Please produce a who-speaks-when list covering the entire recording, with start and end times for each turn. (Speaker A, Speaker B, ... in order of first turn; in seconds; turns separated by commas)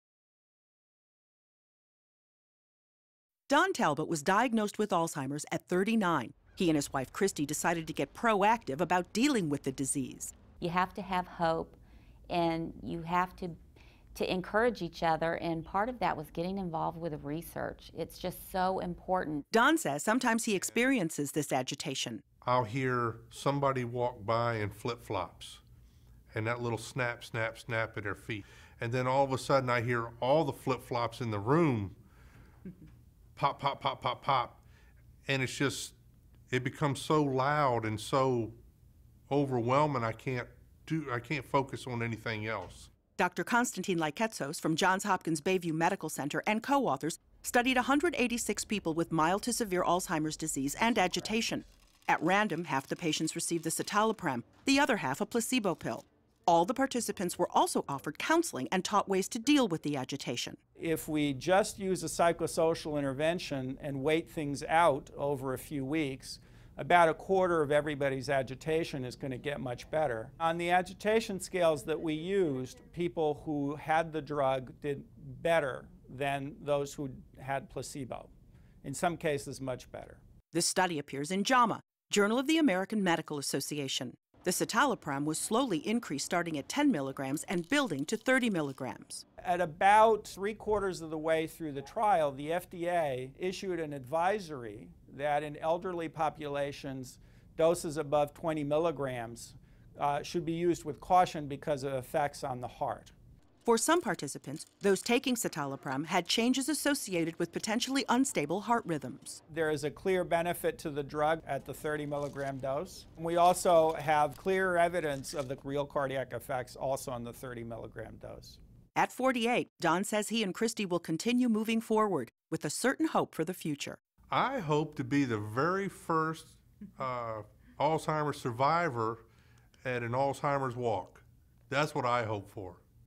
Speaker A: 3.5-10.3, Speaker B: 10.6-13.6, Speaker B: 14.1-19.4, Speaker A: 19.5-22.2, Speaker C: 22.4-25.6, Speaker C: 26.3-32.0, Speaker C: 33.4-34.6, Speaker C: 35.2-36.0, Speaker C: 36.5-38.6, Speaker C: 39.3-42.9, Speaker A: 43.2-60.6, Speaker D: 60.8-78.3, Speaker D: 78.8-80.2, Speaker A: 80.5-89.2, Speaker D: 89.4-103.1, Speaker A: 103.6-109.4, Speaker D: 109.5-118.6, Speaker A: 119.0-124.0, Speaker C: 124.3-129.2, Speaker C: 129.8-132.8